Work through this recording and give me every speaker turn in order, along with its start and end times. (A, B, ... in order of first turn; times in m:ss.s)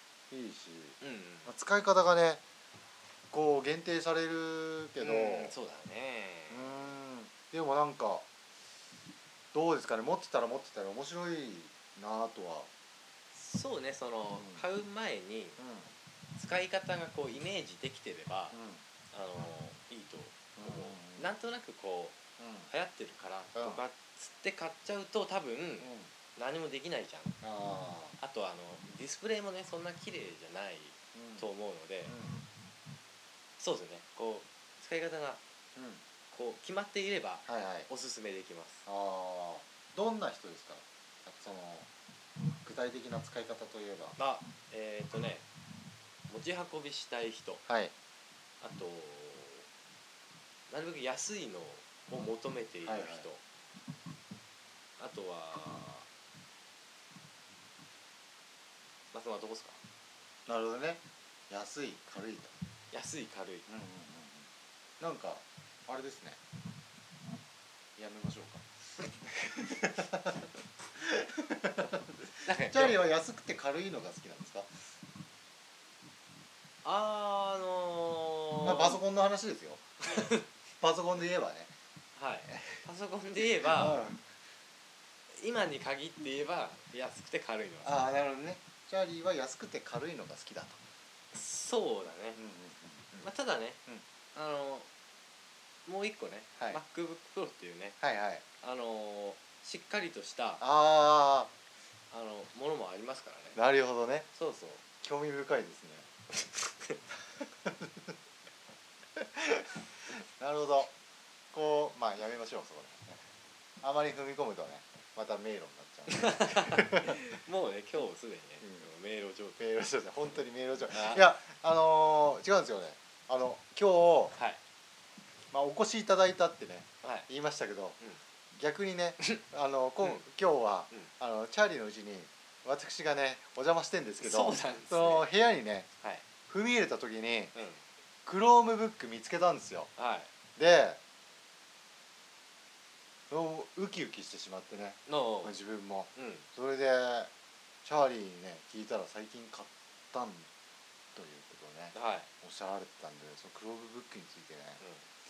0:00.3-0:02.4 A
0:01.0-0:01.5 B
0:03.3-0:05.5 A
0:05.0-0:06.9 B
0:06.5-0:08.3 A
0:09.5-0:12.7 A
0:13.3-0:15.6 B
0:14.4-0:14.6 A
0:15.6-0:15.9 A
0:16.4-0:18.6 B
0:18.5-0:18.8 A
0:19.1-0:22.2 B
0:20.6-0:21.3 A
0:22.4-0:22.7 A
0:22.7-0:27.4 B
0:23.6-0:23.8 A
0:25.8-0:26.1 A
0:27.4-0:28.2 A
0:28.2-0:32.2 B
0:31.1-0:31.5 A
0:32.1-0:32.4 A
0:33.6-0:35.4 B
0:35.8-0:36.0 A
0:36.3-0:38.9 B
0:37.5-0:37.9 A
0:38.9-0:41.9 A
0:42.6-0:44.2 A
0:44.2-0:45.5 B
0:46.3-0:47.6 B
0:47.7-0:47.9 A
0:48.6-0:49.7 B
0:50.7-0:53.4 B
0:52.8-0:53.3 A
0:55.0-0:56.1 B
0:59.1-0:59.8 B
1:00.5-1:02.5 A
1:02.9-1:03.7 B
1:03.7-1:04.5 A
1:05.0-1:06.4 A
1:08.0-1:08.7 A
1:09.3-1:14.9 A
1:12.4-1:13.0 B
1:16.8-1:19.0 B
1:18.6-1:19.9 A
1:20.1-1:20.4 B
1:20.8-1:21.7 A
1:22.2-1:24.0 B
1:23.6-1:24.3 A
1:25.3-1:28.1 B
1:27.8-1:30.8 A
1:31.3-1:32.4 B
1:32.4-1:33.3 A
1:33.2-1:33.8 B
1:34.3-1:34.9 B
1:35.9-1:38.0 B
1:38.0-1:38.4 A
1:38.6-1:40.6 B
1:40.6-1:41.5 A
1:42.1-1:43.6 B
1:43.6-1:44.3 A
1:44.4-1:44.8 B
1:45.0-1:46.1 A
1:46.6-1:47.0 B
1:47.4-1:48.1 A
1:49.2-1:50.9 A
1:51.5-1:53.2 A
1:53.8-1:57.3 A
1:56.1-1:59.6 B
1:58.6-1:58.9 A
1:59.6-2:04.4 A
2:00.9-2:01.2 B
2:05.5-2:08.0 A
2:07.0-2:07.3 B
2:08.5-2:15.9 A
2:14.2-2:15.3 B
2:16.5-2:17.6 A
2:17.6-2:17.8 B
2:18.2-2:19.9 A
2:20.0-2:20.3 B
2:20.6-2:21.0 A
2:23.3-2:27.3 A
2:25.1-2:25.5 B
2:26.2-2:26.5 B
2:27.8-2:30.5 A
2:31.1-2:34.8 A
2:31.9-2:32.3 B